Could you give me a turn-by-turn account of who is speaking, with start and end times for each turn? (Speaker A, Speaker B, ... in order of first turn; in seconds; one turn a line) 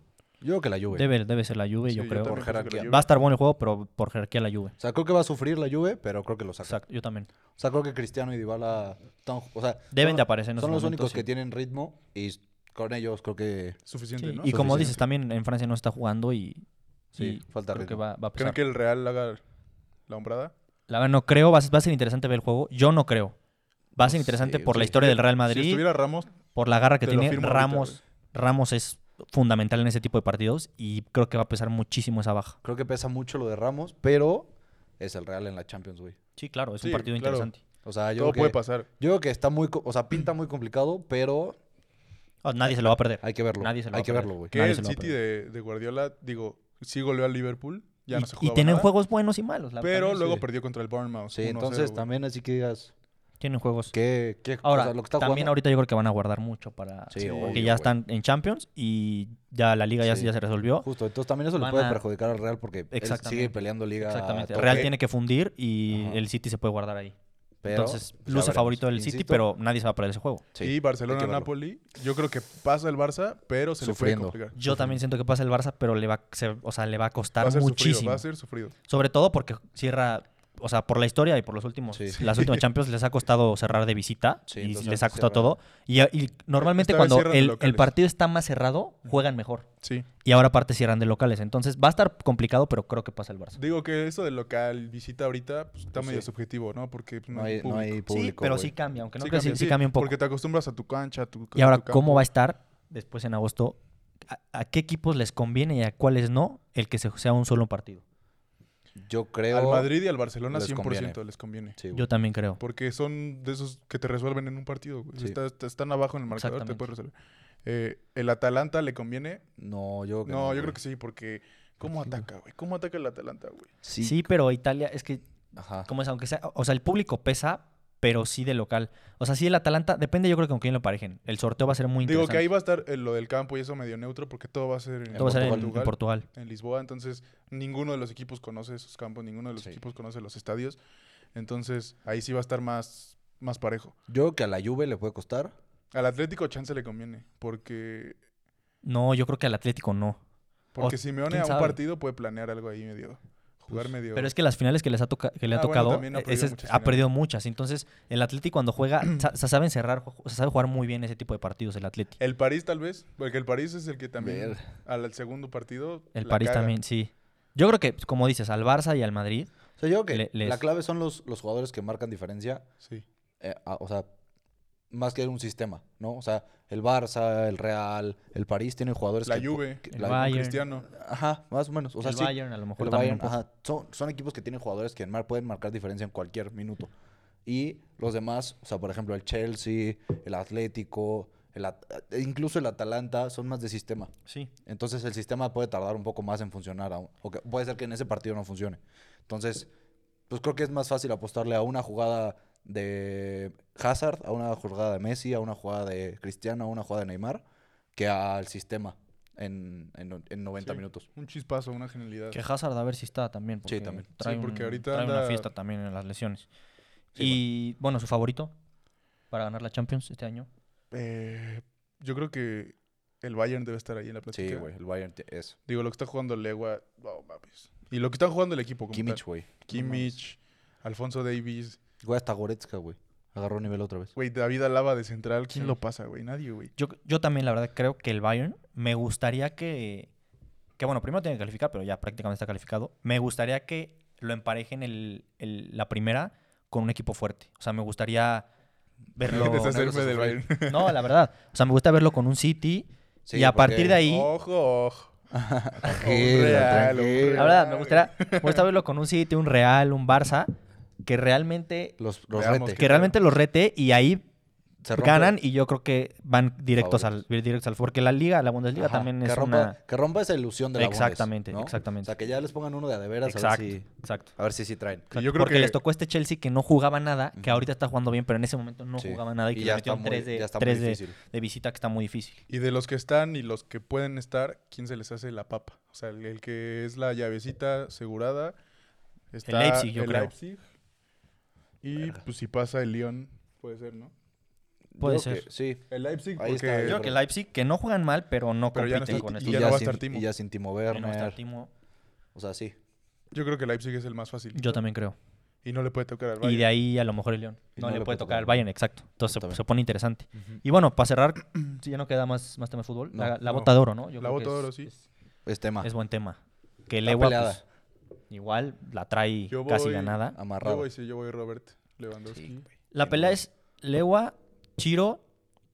Speaker A: 0.4-1.1
Speaker B: 0.9-4.7
Speaker C: 1.9-3.1
Speaker A: 2.2-2.9
Speaker A: 4.8-6.8
Speaker B: 6.6-7.3
Speaker A: 7.6-13.8
Speaker B: 9.9-11.2
Speaker C: 13.8-14.9
Speaker B: 14.2-18.6
Speaker A: 14.4-15.0
Speaker A: 17.2-18.0
Speaker C: 18.4-19.4
Speaker C: 20.1-20.5
Speaker B: 20.9-23.4
Speaker B: 23.9-25.9
Speaker A: 24.0-25.0
Speaker C: 24.8-26.4
Speaker B: 26.5-32.6
Speaker C: 27.0-28.0
Speaker A: 32.6-36.2
Speaker B: 36.4-37.6
Speaker C: 36.8-37.5
Speaker A: 37.8-41.6
Speaker C: 38.1-38.9
Speaker B: 42.4-45.1
Speaker A: 42.7-44.6
Speaker C: 44.5-48.9
Speaker B: 48.1-50.4
Speaker C: 49.8-52.0
Speaker A: 51.3-52.9
Speaker B: 53.4-53.9
Speaker A: 53.9-55.5
Speaker B: 54.6-60.9
Speaker A: 57.1-57.9
Speaker C: 57.1-57.6
Speaker A: 60.0-64.9
Speaker B: 61.5-62.0
Speaker B: 62.9-67.1
Speaker A: 65.9-66.2
Speaker A: 67.6-69.4
Speaker B: 67.7-70.4
Speaker A: 70.5-71.5
Speaker C: 70.6-74.6
Speaker A: 73.8-75.0
Speaker B: 74.5-78.2
Speaker C: 77.4-78.7
Speaker B: 78.9-89.7
Speaker A: 81.9-82.2
Speaker C: 82.2-82.6
Speaker A: 84.5-85.5
Speaker C: 86.6-87.9
Speaker C: 89.8-90.1
Speaker B: 90.2-93.6
Speaker C: 93.5-98.0
Speaker A: 95.9-96.3
Speaker A: 97.3-98.7
Speaker B: 98.1-100.2
Speaker C: 99.2-102.3
Speaker B: 101.5-108.0
Speaker A: 109.0-109.9
Speaker C: 109.5-111.8
Speaker A: 110.5-111.2
Speaker A: 111.8-112.1
Speaker B: 111.9-112.6
Speaker C: 112.6-117.1
Speaker B: 116.3-116.9
Speaker C: 117.6-119.4
Speaker A: 119.6-120.8
Speaker C: 120.2-123.7
Speaker A: 123.8-124.3
Speaker B: 124.0-125.2
Speaker A: 125.5-125.9
Speaker B: 125.8-132.5
Speaker C: 132.0-140.8
Speaker A: 135.1-135.8
Speaker B: 135.1-136.2
Speaker C: 141.3-143.9
Speaker A: 144.1-145.5
Speaker C: 145.9-148.2
Speaker B: 148.8-150.2
Speaker C: 150.7-154.3
Speaker B: 150.8-151.8
Speaker B: 154.1-162.2
Speaker C: 155.5-157.1
Speaker C: 162.2-166.7
Speaker A: 164.2-164.6
Speaker B: 166.1-169.5
Speaker A: 169.8-172.7
Speaker B: 170.1-170.6
Speaker A: 173.4-174.1
Speaker A: 174.9-186.9
Speaker C: 179.2-180.9
Speaker B: 179.9-180.6
Speaker B: 182.0-183.4
Speaker A: 187.4-194.1
Speaker B: 194.2-194.5
Speaker A: 194.6-199.7
Speaker A: 200.3-207.4
Speaker A: 207.9-211.1
Speaker C: 210.6-212.4
Speaker B: 212.3-216.5
Speaker A: 213.6-214.1
Speaker C: 214.2-215.5
Speaker A: 217.1-217.4
Speaker B: 217.2-218.5
Speaker B: 219.3-220.5
Speaker C: 220.9-224.7
Speaker A: 224.3-225.6
Speaker C: 225.7-231.8
Speaker A: 228.9-230.1
Speaker A: 232.0-234.1
Speaker C: 234.1-236.7
Speaker B: 236.8-240.1
Speaker B: 240.8-248.5
Speaker B: 249.2-249.9
Speaker A: 249.2-250.4
Speaker C: 249.2-251.0
Speaker B: 250.6-254.3
Speaker A: 253.2-254.0
Speaker C: 254.0-255.1
Speaker A: 255.3-257.6
Speaker C: 255.8-258.6
Speaker B: 257.4-260.5
Speaker B: 261.0-261.9
Speaker A: 262.0-262.8
Speaker C: 262.3-263.1
Speaker B: 262.7-264.2
Speaker A: 264.8-265.4
Speaker B: 264.9-269.8
Speaker A: 266.8-267.2
Speaker A: 268.7-275.1
Speaker B: 270.8-272.1
Speaker B: 273.2-274.3
Speaker C: 275.1-275.8
Speaker B: 275.1-282.4
Speaker A: 277.3-277.7
Speaker A: 279.0-281.2
Speaker C: 282.5-288.6
Speaker C: 289.3-290.6
Speaker B: 289.4-290.3
Speaker C: 291.8-294.1
Speaker A: 291.9-292.2
Speaker A: 294.9-297.2
Speaker B: 295.0-295.5
Speaker C: 295.9-297.0
Speaker B: 296.8-299.8
Speaker C: 298.7-300.3
Speaker A: 299.1-301.4
Speaker B: 300.9-301.7
Speaker A: 302.3-302.8
Speaker C: 303.3-304.8
Speaker B: 304.5-305.1
Speaker C: 305.6-306.7
Speaker B: 306.4-315.0
Speaker A: 307.8-308.6
Speaker A: 309.3-309.6
Speaker A: 310.3-310.6
Speaker C: 313.4-314.9
Speaker A: 315.4-315.9
Speaker B: 315.8-317.6
Speaker A: 317.0-317.6
Speaker B: 318.3-320.4
Speaker C: 319.5-322.6
Speaker A: 320.3-320.9
Speaker A: 322.3-323.4
Speaker B: 322.9-325.2